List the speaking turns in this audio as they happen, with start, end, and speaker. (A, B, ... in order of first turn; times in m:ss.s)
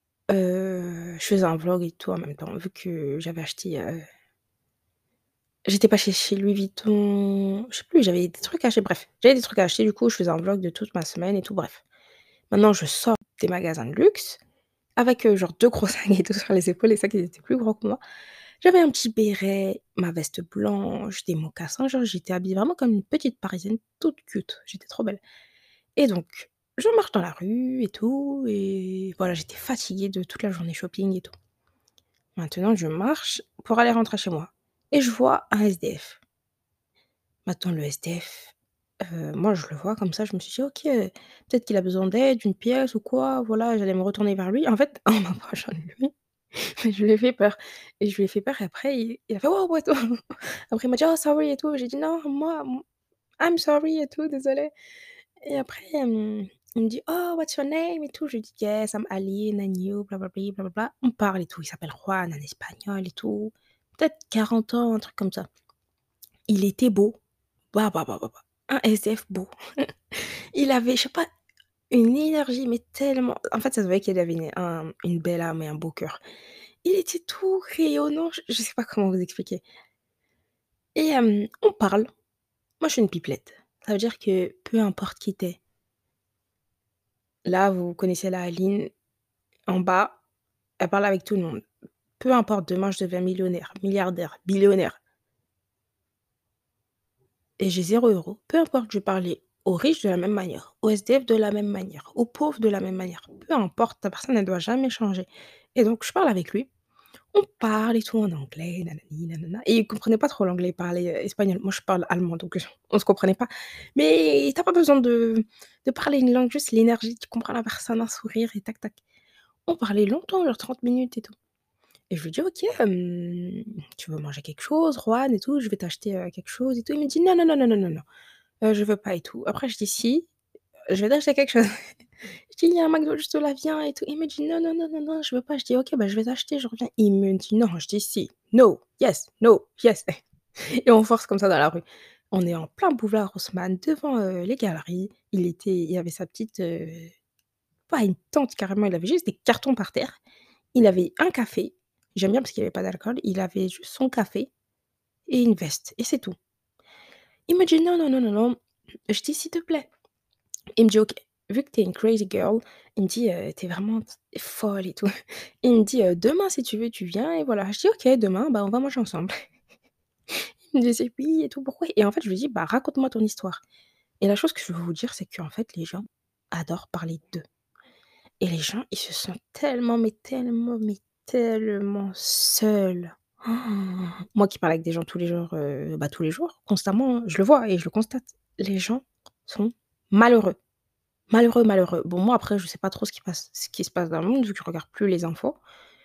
0:00.3-0:04.0 A
0:05.6-0:11.8 A
0:12.5-0:14.4 A
0:15.0-0:18.0 A
0:18.6-0:25.2 A
0:26.0-0:31.3 A
0:32.4-0:36.2 A
0:37.5-0:52.8 A
0:53.4-0:54.7 A
0:55.4-1:05.5 A
1:06.5-1:07.2 A
1:07.7-1:09.5 A
1:10.1-1:11.3 A
1:11.9-1:16.2 A
1:16.8-1:19.6 A
1:21.0-1:22.1 A
1:22.8-1:25.6 A
1:27.4-1:28.9 A
1:29.7-1:30.2 A
1:30.8-1:31.6 A
1:32.2-1:35.0 A
1:37.6-1:46.7 A
1:47.3-1:59.0 A
1:59.7-2:01.3 A
2:02.1-2:08.0 A
2:08.6-2:10.3 A
2:10.9-2:11.7 A
2:12.5-2:20.1 A
2:20.8-2:27.1 A
2:27.9-2:30.2 A
2:30.7-2:34.5 A
2:35.3-2:36.4 A
2:37.5-2:38.6 A
2:39.1-2:39.9 A
2:40.8-2:45.1 A
2:45.6-2:49.3 A
2:50.7-2:53.6 A
2:54.2-2:57.4 A
2:58.4-3:10.6 A
3:11.3-3:15.6 A